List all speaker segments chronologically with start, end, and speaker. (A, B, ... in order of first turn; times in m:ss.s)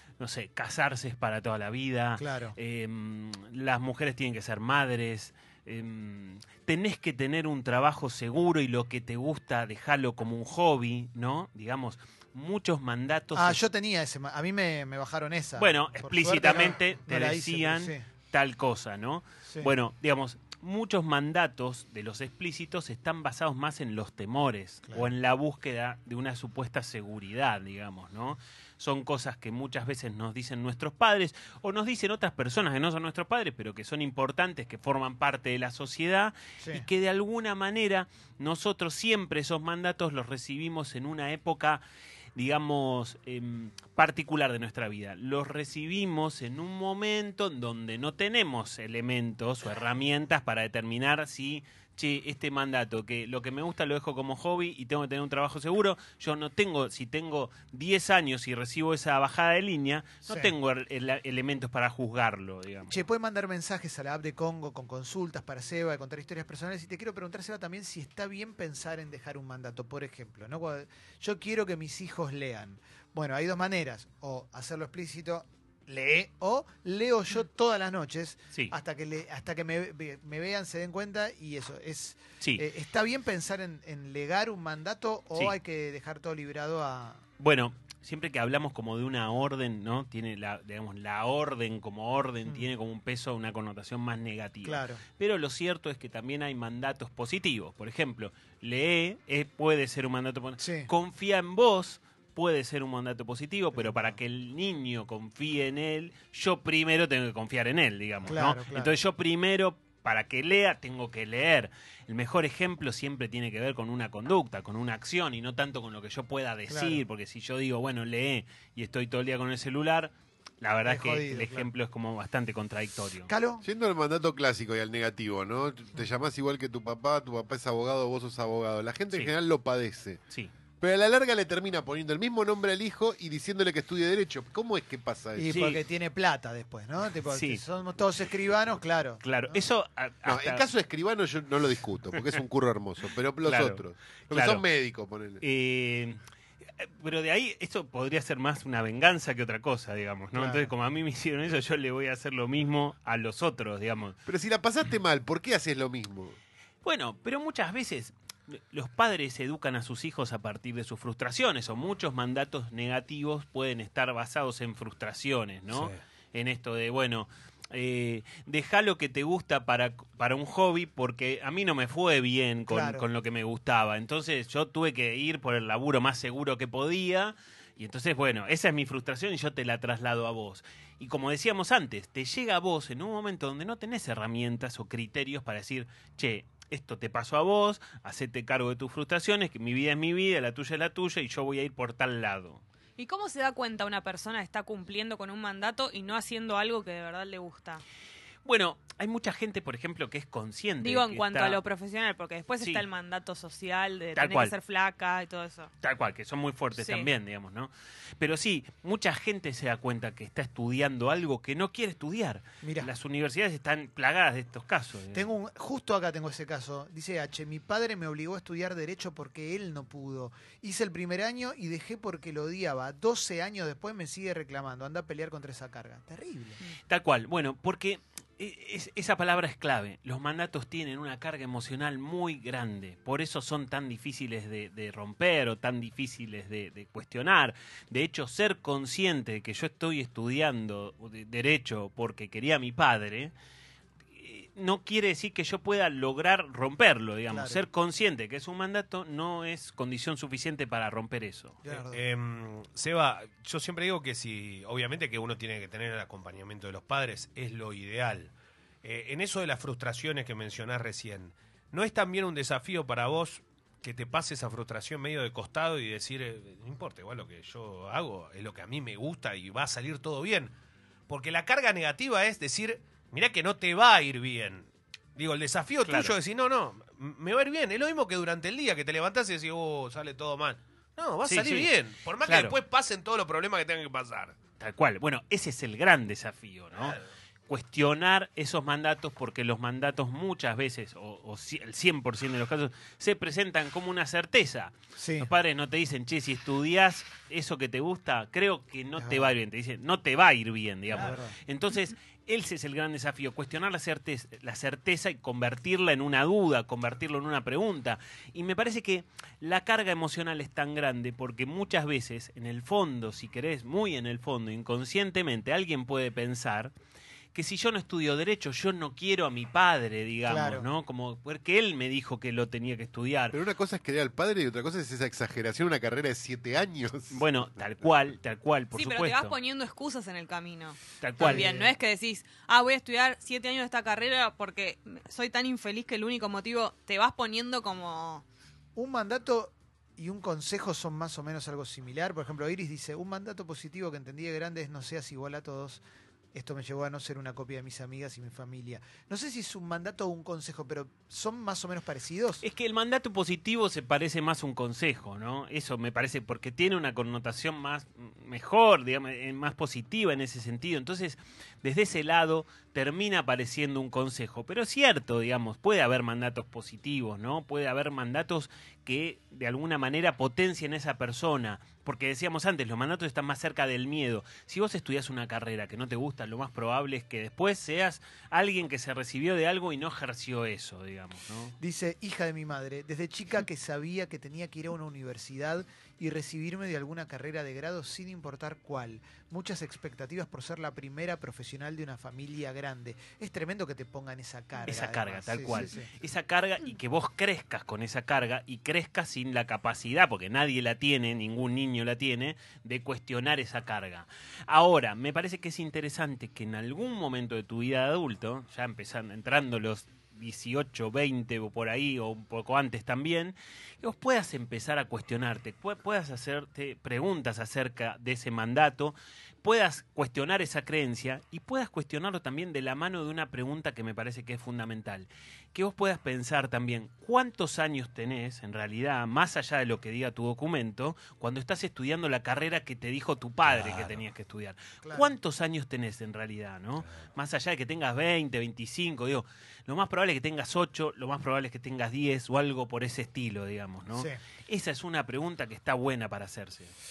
0:00.2-0:13.6 A
0:02.2-0:02.6 B
0:13.3-0:18.0 B
0:15.6-0:41.8 A
0:36.6-0:36.8 B
0:42.4-1:03.0 A
1:02.9-1:27.2 B
1:27.4-2:03.3 A
1:34.6-1:35.0 B
1:40.6-1:40.9 B
1:43.8-1:44.2 B
1:48.3-1:48.9 B
1:56.7-1:57.0 B
2:00.8-2:01.7 B
2:03.3-2:03.6 B
2:03.6-2:10.2 C
2:10.8-2:15.6 C
2:15.4-2:19.6 B
2:15.5-2:15.8 A
2:17.3-2:17.6 A
2:19.2-2:20.6 A
2:20.2-2:25.4 C
2:23.4-2:24.6 A
2:25.4-2:26.2 A
2:26.8-2:34.2 A
2:30.3-2:30.7 B
2:34.2-2:36.4 C
2:36.8-3:12.6 A
2:45.7-2:46.0 D
2:52.7-2:53.0 B
3:13.0-3:17.8 E
3:18.4-3:21.6 A
3:20.8-3:25.7 E
3:24.2-3:24.5 A
3:25.8-3:35.3 A
3:26.8-3:27.1 E
3:32.6-3:32.9 B
3:35.1-3:46.6 B
3:46.9-4:03.3 A
4:04.2-4:11.6 A
4:07.3-4:07.6 B
4:11.6-4:12.0 B
4:11.9-4:30.5 D
4:31.1-4:44.4 D
4:35.8-4:36.1 A
4:41.2-4:41.7 A
4:42.2-4:42.5 A
4:44.6-4:47.0 A
4:46.8-4:47.0 D
4:47.5-5:16.7 A
4:55.0-4:55.3 B
4:59.0-4:59.3 B
5:00.9-5:01.4 B
5:17.3-5:23.4 A
5:20.2-5:20.7 B
5:23.3-5:27.2 C
5:27.1-5:29.3 A
5:28.7-5:38.2 E
5:31.0-5:31.5 A
5:31.2-5:31.7 B
5:38.8-5:45.8 B
5:46.3-5:52.4 B
5:52.4-6:21.5 A
6:21.6-6:35.9 B
6:34.7-7:26.7 A
7:13.4-7:14.0 D
7:14.8-7:15.1 B